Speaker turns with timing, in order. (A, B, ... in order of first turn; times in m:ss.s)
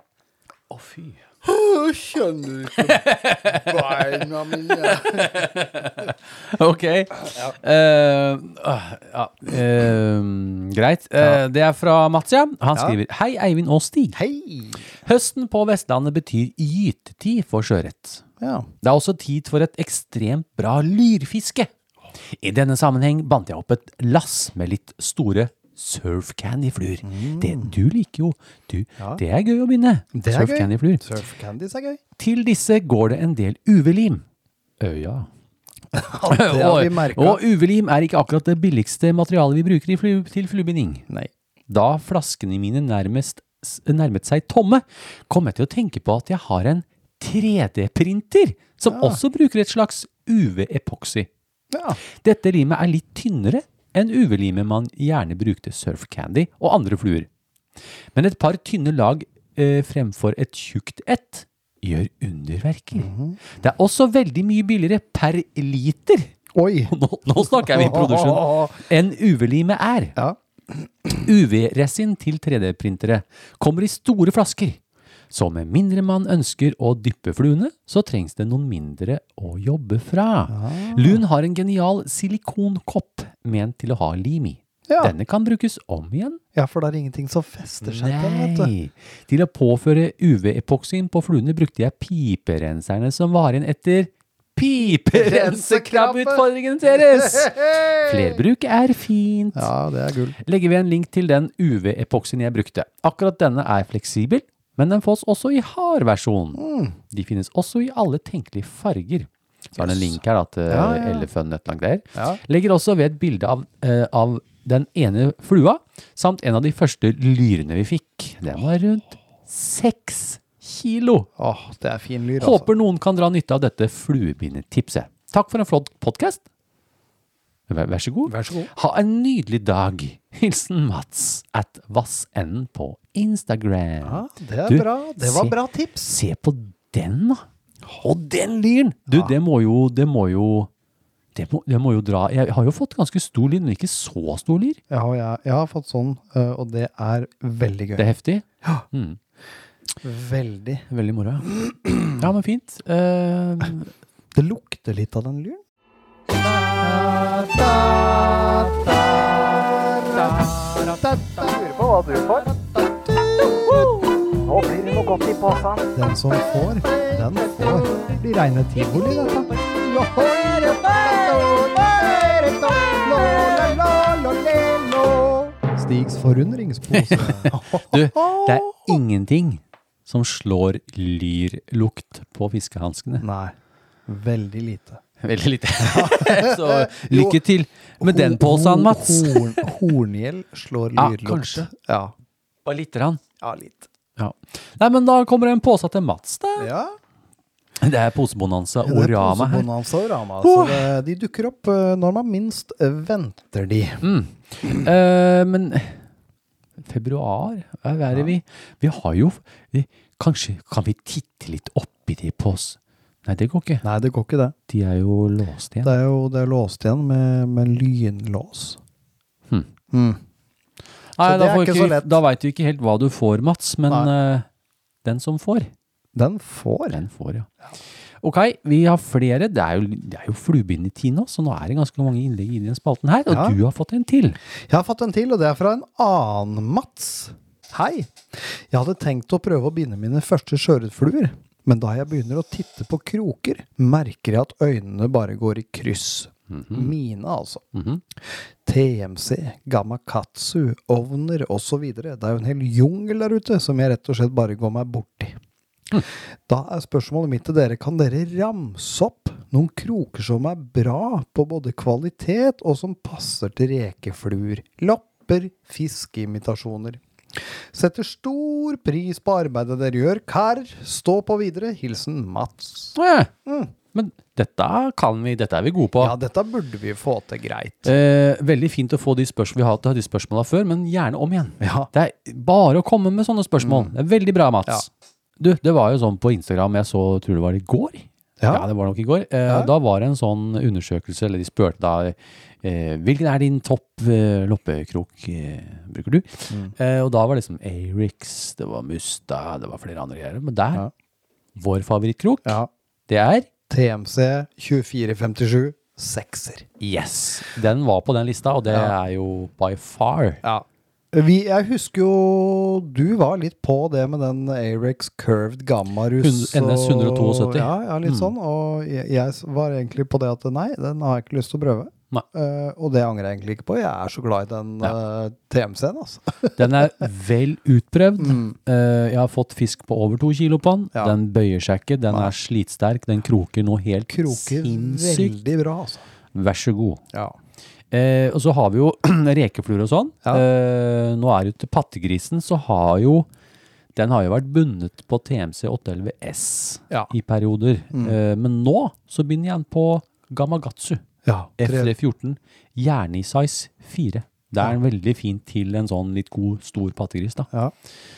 0:00.7-0:01.2 A
0:01.4-0:05.4 B
0:02.8-0:14.2 A
0:14.1-0:14.9 B
0:15.0-0:18.2 A
0:18.4-0:18.7 B
0:18.8-0:21.7 A
0:22.3-0:31.0 A
0:27.0-0:27.7 B
0:30.1-0:32.0 B
0:32.2-0:34.2 A
0:34.8-0:35.3 A
0:35.9-0:37.4 B
0:36.3-0:41.0 A
0:41.7-0:51.3 A
0:48.9-0:49.2 B
0:51.7-0:52.0 B
0:52.1-0:57.3 A
0:58.1-1:06.3 A
1:03.0-1:03.4 B
1:06.5-1:08.8 B
1:06.9-1:10.2 A
1:10.2-1:11.2 B
1:11.1-1:14.8 A
1:15.3-1:26.4 A
1:20.5-1:21.2 B
1:24.9-1:25.1 B
1:26.5-1:28.7 B
1:27.8-1:39.7 A
1:35.1-1:38.4 B
1:39.5-1:40.4 B
1:40.4-2:01.3 A
1:46.6-1:47.0 B
1:49.8-1:51.3 B
1:52.1-1:52.4 B
2:01.4-2:02.7 B
2:02.4-2:06.4 A
2:07.7-2:15.5 A
2:08.3-2:08.7 B
2:14.0-2:16.1 B
2:16.0-2:17.4 A
2:18.0-2:20.7 A
2:19.1-2:19.3 B
2:21.3-2:24.8 A
2:24.9-2:28.0 B
2:28.0-2:29.2 A
2:30.0-2:30.9 B
2:30.9-2:31.5 A
2:31.4-2:32.2 B
2:32.2-2:33.9 A
2:34.3-2:35.6 B
2:36.6-2:59.0 B
2:56.9-3:03.2 A
3:03.2-3:03.5 B
3:04.1-3:05.0 B
3:05.2-3:09.7 A
3:05.8-3:07.4 B
3:08.0-3:12.1 B
3:11.0-3:11.7 A
3:12.6-3:13.2 A
3:13.4-3:13.9 B
3:14.2-3:16.7 A
3:16.6-3:16.9 B
3:17.8-3:19.7 A
3:18.8-3:24.0 B
3:20.4-3:20.9 A
3:24.0-3:26.0 A
3:26.8-3:33.8 A
3:33.8-3:34.5 B
3:34.7-3:35.9 A
3:35.8-3:38.8 B
3:39.9-3:40.2 B
3:41.2-3:44.5 A
3:41.2-3:42.2 B
3:45.0-3:45.7 A
3:46.1-3:47.0 B
3:46.9-3:47.5 A
3:48.2-3:54.4 A
3:53.3-3:53.6 B
3:54.7-4:15.4 B
4:06.5-4:06.9 A
4:07.7-4:08.0 A
4:15.9-4:33.7 B
4:32.9-4:33.3 A
4:33.9-4:36.2 A
4:36.0-4:37.9 B
4:37.8-4:44.9 A
4:41.6-4:41.9 B
4:43.6-4:43.9 B
4:45.4-5:00.8 A
4:48.4-4:48.7 B
5:01.6-5:02.6 A
5:02.4-5:02.7 B
5:03.1-5:03.5 A
5:03.7-5:06.7 B
5:06.8-5:10.4 A
5:10.4-5:26.8 B
5:16.2-5:18.3 A
5:26.6-5:35.4 A
5:28.2-5:28.6 B
5:34.1-5:36.0 B
5:36.3-5:37.0 A
5:37.9-5:43.3 A
5:43.9-5:51.0 A
5:51.2-5:51.9 B
5:51.6-5:57.5 A